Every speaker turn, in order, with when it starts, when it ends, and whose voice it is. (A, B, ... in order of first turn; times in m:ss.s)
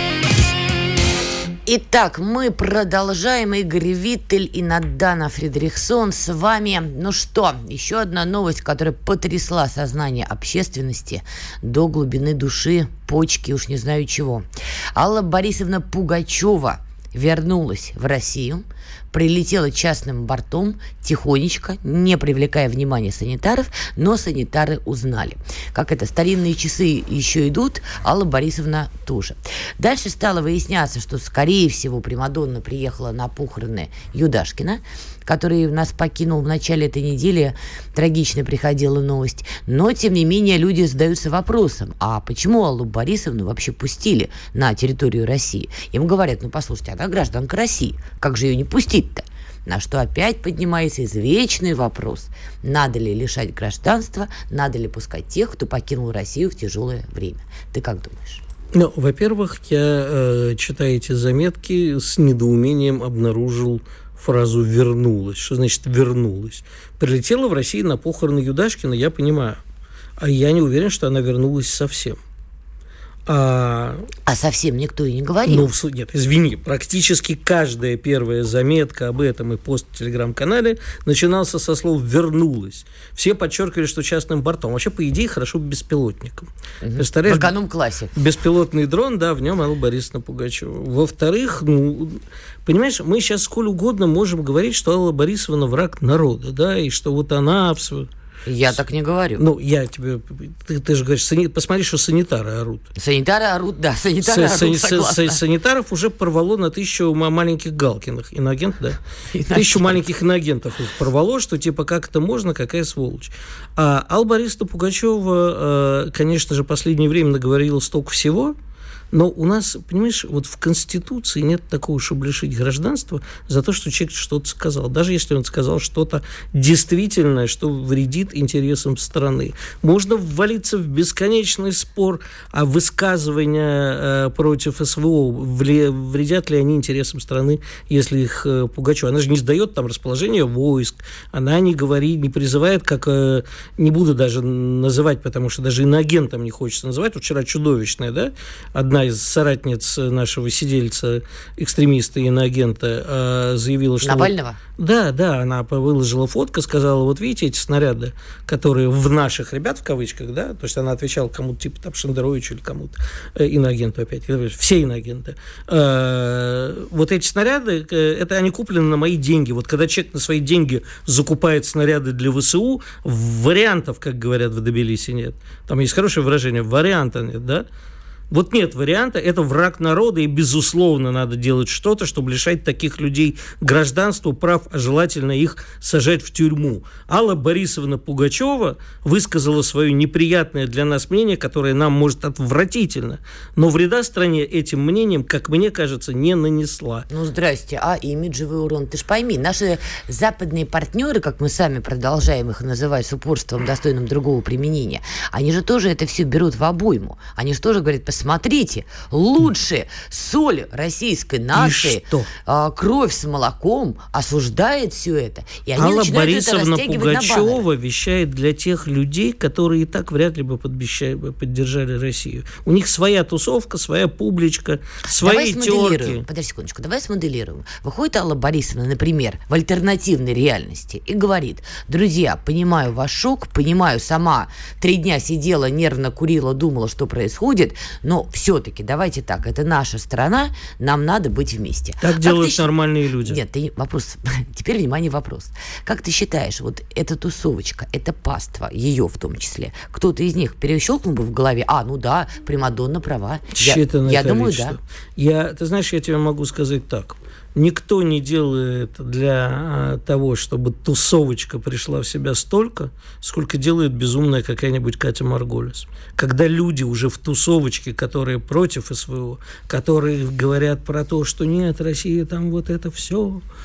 0:01.7-0:58.4 A
0:58.7-1:09.6 B
1:10.2-1:12.2 B
1:13.3-1:14.1 B
1:14.3-1:15.7 A
1:15.5-1:27.5 B
1:26.8-1:28.1 A
1:28.2-1:38.1 B
1:38.5-1:39.4 A
1:39.4-1:42.9 B
1:43.0-1:45.4 A
1:44.2-1:49.0 B
1:49.3-1:50.0 A
1:49.5-1:58.6 B
1:59.1-2:57.7 B
2:34.0-2:34.6 A
2:58.3-3:17.1 B
3:17.1-3:37.6 A
3:31.5-3:32.3 B
3:35.8-3:46.2 B
3:45.1-4:14.8 A
4:02.0-4:03.4 B
4:13.5-4:33.4 B